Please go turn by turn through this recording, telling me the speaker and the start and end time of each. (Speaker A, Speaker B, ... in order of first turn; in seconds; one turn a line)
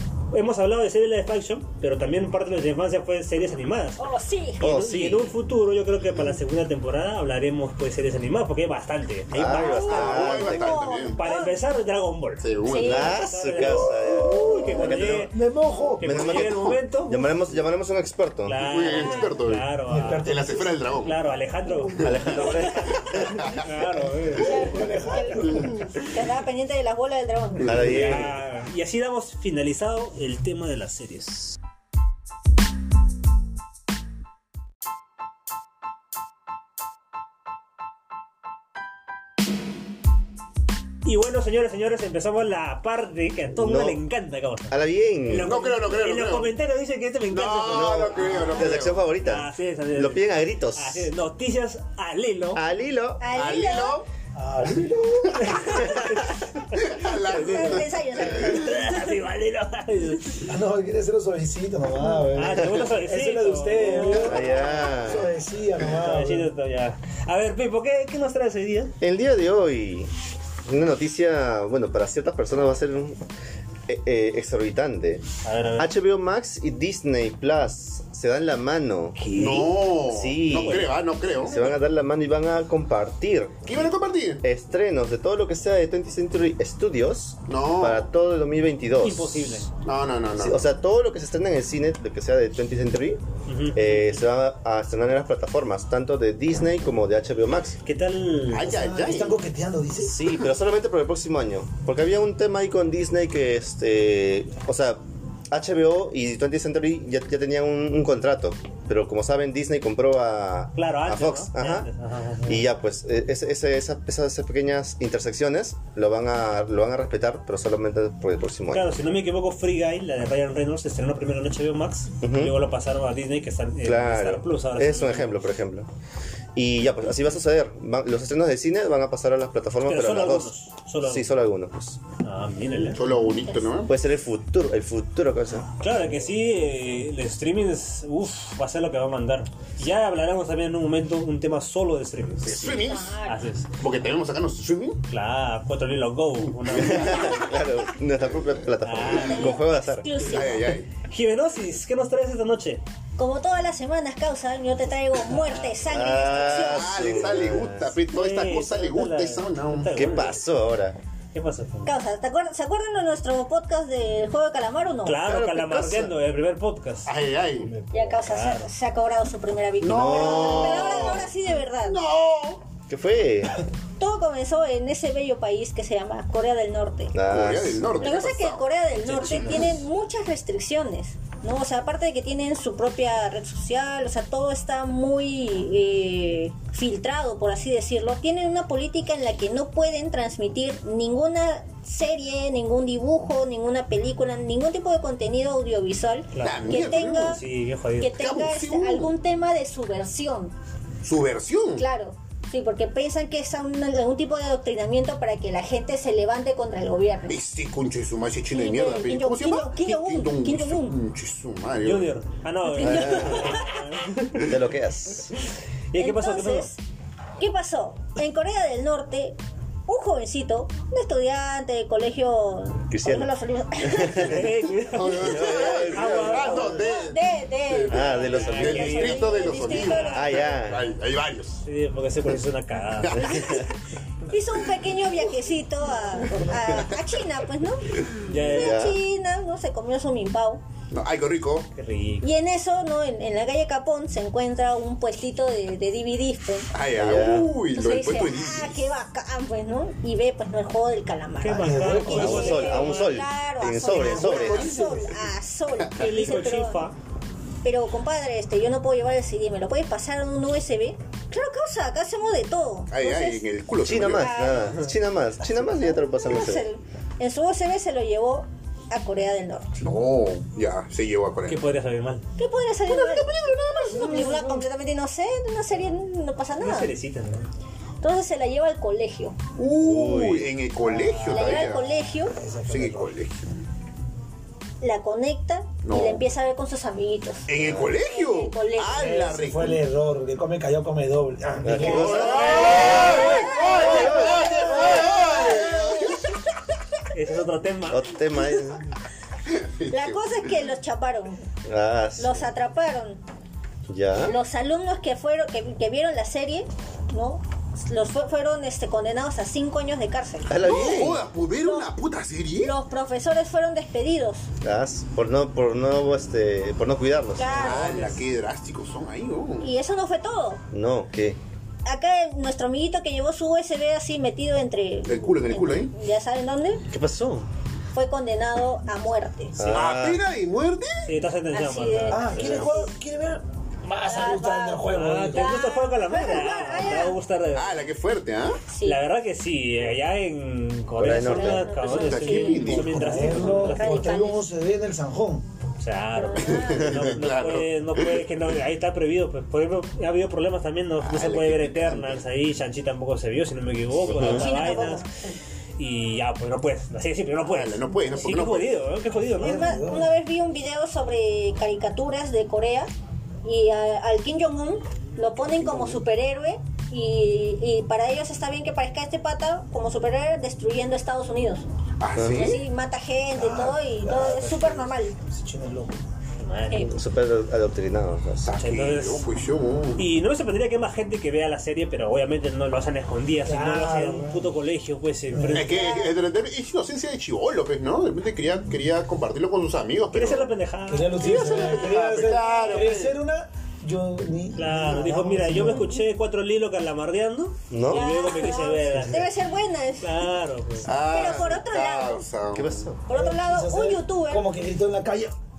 Speaker A: 0.3-4.0
Speaker B: 4.0-4.7
Speaker C: 4.6-5.3
Speaker A: 4.6-10.4
Speaker C: 9.3-10.9
Speaker B: 9.4-11.6
Speaker D: 9.8-11.2
Speaker A: 11.1-15.4
Speaker D: 12.4-13.2
Speaker B: 12.6-13.2
Speaker C: 12.8-15.3
Speaker E: 13.7-16.0
Speaker A: 16.0-17.3
Speaker C: 16.0-18.6
Speaker D: 16.1-16.8
Speaker A: 18.4-20.3
Speaker D: 18.6-19.6
Speaker E: 19.9-21.0
Speaker D: 20.2-21.2
Speaker A: 21.0-24.6
Speaker D: 21.9-22.5
Speaker C: 22.0-23.2
Speaker D: 23.1-23.7
Speaker B: 24.4-27.7
Speaker E: 24.4-25.7
Speaker C: 27.6-28.3
Speaker D: 27.6-28.2
Speaker A: 27.7-31.6
Speaker A: 41.0-48.6
Speaker C: 43.6-44.0
Speaker C: 44.7-45.5
Speaker D: 45.4-46.5
Speaker D: 47.3-49.0
Speaker C: 47.7-51.1
Speaker A: 49.1-52.6
Speaker C: 52.5-53.3
Speaker B: 53.2-54.0
Speaker D: 53.3-54.1
Speaker E: 54.4-55.9
Speaker A: 55.4-56.4
Speaker D: 56.7-58.0
Speaker B: 57.2-59.2
Speaker A: 57.3-60.5
Speaker E: 60.5-66.5
Speaker A: 62.3-64.6
Speaker C: 62.6-62.8
Speaker C: 64.2-65.3
Speaker A: 65.8-69.0
Speaker C: 69.0-70.1
Speaker C: 70.7-73.2
Speaker C: 73.9-75.2
Speaker A: 75.4-75.9
Speaker C: 75.8-79.2
Speaker A: 79.2-79.9
Speaker D: 79.3-81.7
Speaker C: 80.0-83.9
Speaker A: 80.5-81.0
Speaker D: 83.7-84.4
Speaker C: 84.4-89.6
Speaker D: 87.5-88.1
Speaker A: 89.0-89.7
Speaker D: 89.8-90.6
Speaker C: 90.4-93.2
Speaker A: 93.5-94.2
Speaker C: 93.7-97.8
Speaker A: 97.8-98.8
Speaker D: 98.5-99.4
Speaker E: 98.6-100.2
Speaker C: 100.0-111.9
Speaker A: 110.8-112.7
Speaker C: 112.4-118.9
Speaker A: 118.7-125.4
Speaker C: 122.2-122.6
Speaker C: 123.8-125.9
Speaker C: 126.5-132.0
Speaker A: 129.8-131.3
Speaker A: 132.2-133.0
Speaker D: 132.9-133.9
Speaker B: 133.0-133.8
Speaker C: 133.9-135.7
Speaker A: 135.8-143.7
Speaker D: 142.4-143.2
Speaker B: 142.7-143.4
Speaker D: 143.8-145.0
Speaker A: 145.1-147.5
Speaker D: 146.6-147.3
Speaker C: 146.8-150.1
Speaker A: 148.8-149.6
Speaker B: 149.2-150.8
Speaker D: 150.2-150.9
Speaker A: 151.1-152.8
Speaker B: 153.2-157.3
Speaker A: 155.4-155.8
Speaker C: 155.8-157.8
Speaker D: 156.4-160.0
Speaker A: 157.8-160.4
Speaker C: 159.9-161.0
Speaker A: 161.3-162.0
Speaker B: 161.8-165.2
Speaker A: 165.0-167.1
Speaker C: 165.2-166.2
Speaker D: 167.1-167.7
Speaker B: 167.9-172.0
Speaker A: 168.1-168.7
Speaker D: 169.8-171.3
Speaker C: 169.8-171.2
Speaker D: 171.8-172.7
Speaker C: 172.9-173.6
Speaker B: 174.0-177.2
Speaker C: 177.1-178.0
Speaker D: 177.2-178.7
Speaker B: 178.0-197.4
Speaker A: 179.0-179.8
Speaker D: 179.3-179.6
Speaker A: 196.3-198.1
Speaker D: 196.4-197.4
Speaker B: 198.0-200.5
Speaker D: 198.2-199.1
Speaker D: 201.0-201.9
Speaker B: 201.8-207.4
Speaker D: 207.3-212.2
Speaker B: 208.5-211.0
Speaker A: 211.8-214.5
Speaker B: 212.7-213.8
Speaker C: 212.8-213.5
Speaker C: 214.4-215.3
Speaker A: 215.9-216.7
Speaker B: 215.9-216.8
Speaker B: 217.4-224.4
Speaker C: 222.9-224.5
Speaker A: 224.1-226.8
Speaker D: 224.9-231.6
Speaker C: 225.2-226.7
Speaker B: 225.3-230.5
Speaker C: 227.9-229.1
Speaker A: 228.3-230.2
Speaker C: 230.1-230.9
Speaker A: 231.6-233.5
Speaker D: 233.0-233.7
Speaker C: 233.2-233.6
Speaker B: 233.2-233.5
Speaker B: 234.3-240.6
Speaker D: 236.5-236.9
Speaker A: 238.3-238.8
Speaker C: 238.6-239.0
Speaker D: 240.9-241.7
Speaker A: 241.8-242.3
Speaker B: 242.2-246.7
Speaker D: 246.7-248.9
Speaker C: 246.9-247.5
Speaker B: 247.7-256.9
Speaker A: 251.4-253.2
Speaker E: 251.5-252.7
Speaker C: 252.2-254.7
Speaker E: 253.8-255.2
Speaker A: 256.0-256.9
Speaker D: 256.0-256.3
Speaker B: 257.6-263.4
Speaker D: 262.9-264.3
Speaker C: 263.8-266.6
Speaker B: 264.1-264.9
Speaker B: 265.6-269.7
Speaker D: 269.8-271.6
Speaker A: 271.5-272.2
Speaker B: 272.4-276.9
Speaker D: 272.9-274.3
Speaker E: 274.1-274.4
Speaker A: 276.6-277.5
Speaker B: 278.0-279.4
Speaker D: 279.6-281.9
Speaker C: 279.8-280.5
Speaker E: 280.8-281.5
Speaker A: 281.2-281.7
Speaker B: 281.3-282.4
Speaker E: 282.3-283.1
Speaker D: 282.7-283.6
Speaker B: 284.8-289.4
Speaker D: 285.9-286.2
Speaker D: 287.5-289.8
Speaker C: 287.6-287.9
Speaker E: 288.9-292.7
Speaker C: 291.6-294.7
Speaker D: 291.8-296.2
Speaker A: 292.1-293.5
Speaker B: 292.3-296.3
Speaker A: 297.1-298.1
Speaker C: 297.9-298.8
Speaker D: 299.5-300.5
Speaker B: 299.9-301.4
Speaker C: 301.7-302.5
Speaker B: 302.2-303.2
Speaker C: 303.9-304.3
Speaker B: 304.1-311.9
Speaker C: 310.5-311.2
Speaker D: 310.6-312.8
Speaker B: 312.6-314.5
Speaker C: 314.6-318.0
Speaker B: 317.4-318.2
Speaker D: 317.5-319.7
Speaker B: 319.6-320.6
Speaker C: 320.7-321.4
Speaker B: 321.9-326.8
Speaker D: 325.1-325.9
Speaker C: 326.9-327.4
Speaker B: 327.9-329.6
Speaker C: 329.6-330.2
Speaker D: 329.7-331.1
Speaker A: 331.0-332.7
Speaker B: 331.5-332.9
Speaker E: 332.1-335.6
Speaker B: 334.0-337.2
Speaker A: 334.9-337.8
Speaker D: 337.5-338.6
Speaker B: 338.7-339.0
Speaker A: 338.8-344.1
Speaker C: 341.0-341.7
Speaker B: 341.2-344.4
Speaker D: 341.8-343.6
Speaker E: 342.7-345.4
Speaker A: 345.8-355.1
Speaker B: 346.1-347.0
Speaker D: 346.4-348.2
Speaker D: 351.0-352.2
Speaker C: 354.1-354.5
Speaker B: 354.1-355.2
Speaker A: 355.8-359.8
Speaker D: 357.5-358.8
Speaker E: 359.4-360.2
Speaker B: 359.4-362.9
Speaker B: 363.4-371.7
Speaker D: 365.6-366.0
Speaker D: 372.0-372.6
Speaker C: 372.2-372.6
Speaker B: 372.3-375.1
Speaker E: 373.4-376.0
Speaker A: 376.4-376.9
Speaker B: 376.7-376.9
Speaker C: 376.9-378.6
Speaker D: 378.4-380.0
Speaker A: 378.6-379.3
Speaker A: 380.0-385.7
Speaker E: 383.4-384.6
Speaker E: 385.3-385.7
Speaker D: 385.5-390.5
Speaker B: 385.7-386.2
Speaker A: 390.1-391.6
Speaker E: 390.9-395.9
Speaker D: 391.2-393.2
Speaker B: 392.3-392.8
Speaker A: 394.6-399.3
Speaker C: 397.7-398.0
Speaker B: 397.9-400.3
Speaker A: 400.0-400.9
Speaker D: 400.9-402.9
Speaker B: 400.9-402.3
Speaker C: 402.5-403.0
Speaker B: 403.1-404.5
Speaker E: 403.1-405.3